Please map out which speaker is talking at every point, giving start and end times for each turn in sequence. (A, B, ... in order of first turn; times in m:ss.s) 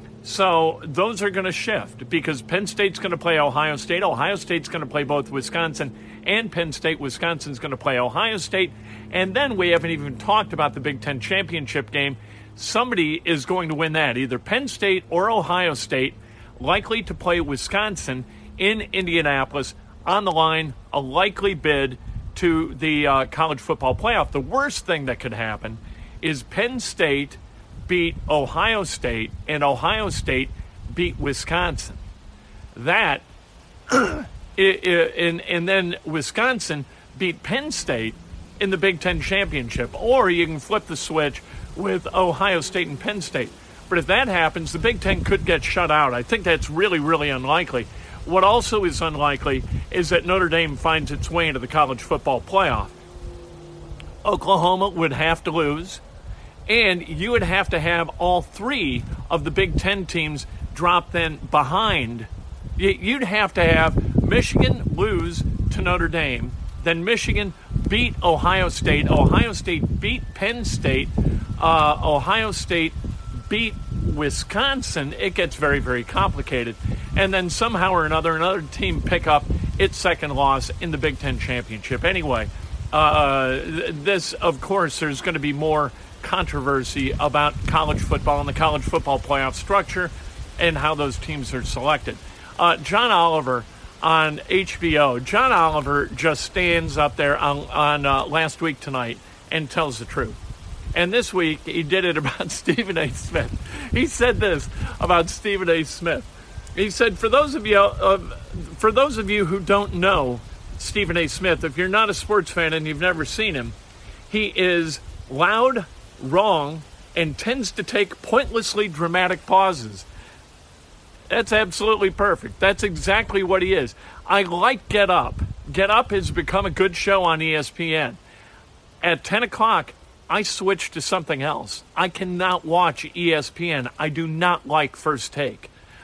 0:00.2-0:32.0 A
0:32.7-0:33.2 A
0:33.9-0:52.9 A
0:54.2-0:56.0 A
0:56.7-1:40.4 A
1:40.9-1:53.8 A
1:54.3-2:00.1 A
2:01.3-2:08.2 A
2:09.0-2:15.7 A